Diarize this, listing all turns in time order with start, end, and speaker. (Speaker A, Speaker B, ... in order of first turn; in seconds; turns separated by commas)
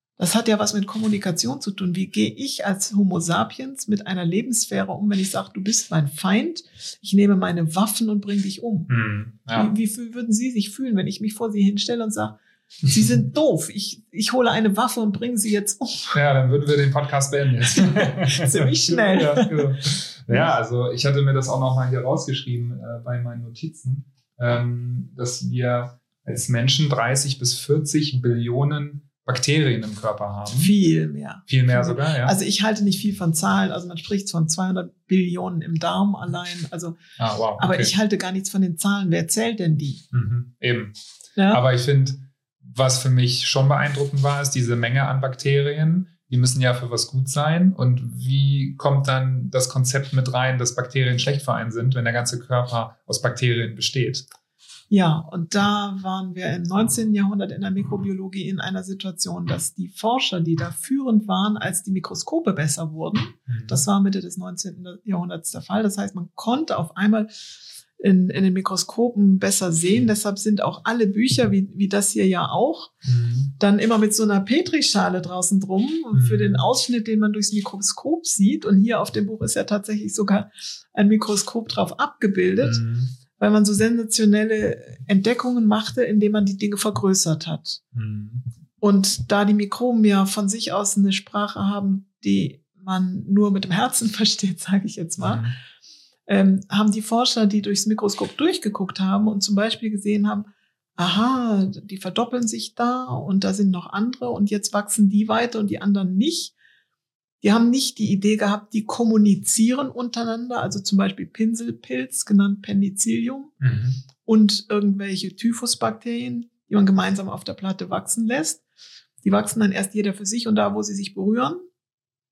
Speaker A: 0.2-8.9, Speaker B: 8.9-9.7, Speaker A: 9.5-16.2, Speaker B: 12.9-13.2, Speaker B: 16.1-30.7, Speaker A: 17.8-20.5, Speaker A: 30.5-37.0, Speaker B: 31.5-32.4, Speaker B: 37.2-37.9, Speaker A: 37.6-40.0, Speaker B: 40.1-40.9, Speaker A: 41.4-41.6, Speaker B: 41.5-54.2, Speaker A: 54.9-67.3, Speaker B: 63.5-63.8, Speaker A: 68.0-72.9, Speaker B: 73.0-73.5, Speaker A: 73.6-82.8, Speaker B: 76.1-76.6, Speaker B: 82.6-83.1, Speaker A: 83.3-87.8, Speaker B: 87.9-88.5, Speaker A: 88.8-95.5, Speaker B: 95.2-95.5, Speaker A: 96.2-106.5, Speaker A: 107.4-113.5, Speaker B: 113.6-114.0, Speaker A: 114.2-118.6, Speaker A: 119.2-121.6